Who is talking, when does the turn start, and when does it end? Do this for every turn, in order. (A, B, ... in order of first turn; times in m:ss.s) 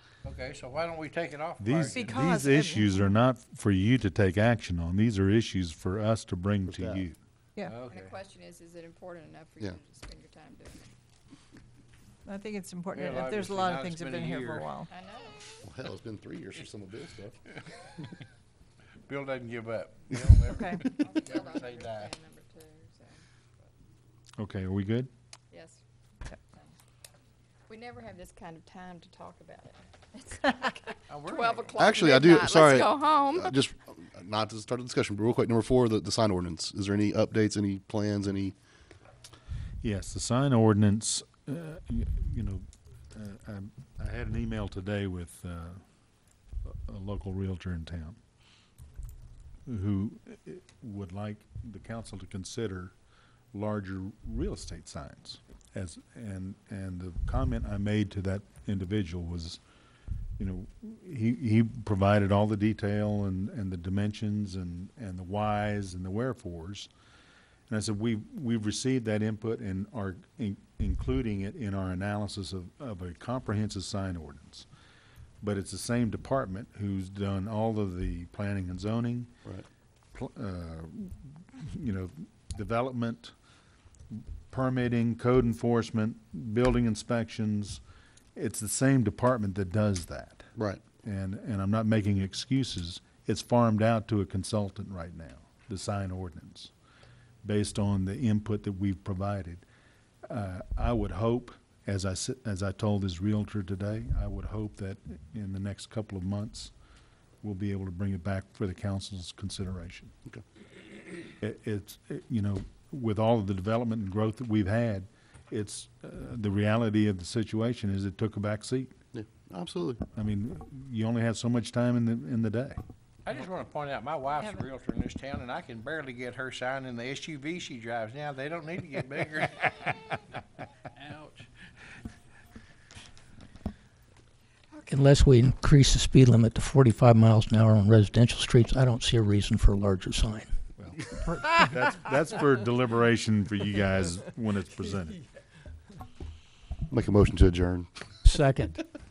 0:00.2-0:02.2 A
0:01.6-0:07.2 B
0:01.9-0:03.1 C
0:06.7-0:07.0 D
0:07.6-0:08.1 A
0:07.9-0:10.9 E
0:12.2-0:14.9 C
0:12.9-0:14.7 A
0:14.9-0:15.4 E
0:15.6-0:17.4 D
0:19.1-0:22.1 A
0:20.5-0:20.8 C
0:20.8-0:23.7 E
0:24.4-0:25.1 B
0:25.5-0:25.8 E
0:27.7-0:33.6 E
0:31.1-0:32.0 A
0:31.8-0:38.6 D
0:39.8-0:45.8 B
0:46.6-0:48.2 B
0:49.7-0:52.9 B
0:53.5-0:59.6 B
1:00.4-1:06.9 B
1:07.7-1:14.7 B
1:15.4-1:19.3 B
1:20.1-1:23.3 B
1:24.1-1:27.8 B
1:28.3-1:30.4 B
1:30.6-1:30.8 D
1:31.0-1:36.7 B
1:37.4-1:39.6 B
1:40.3-1:46.7 B
1:47.4-1:50.1 B
1:51.4-1:58.9 B
1:59.1-2:00.0 D
2:00.1-2:02.8 B
2:03.2-2:10.0 A
2:10.9-2:11.5 A
2:14.8-2:20.5 F
2:20.8-2:25.2 B
2:26.9-2:27.9 D
2:28.2-2:28.8 F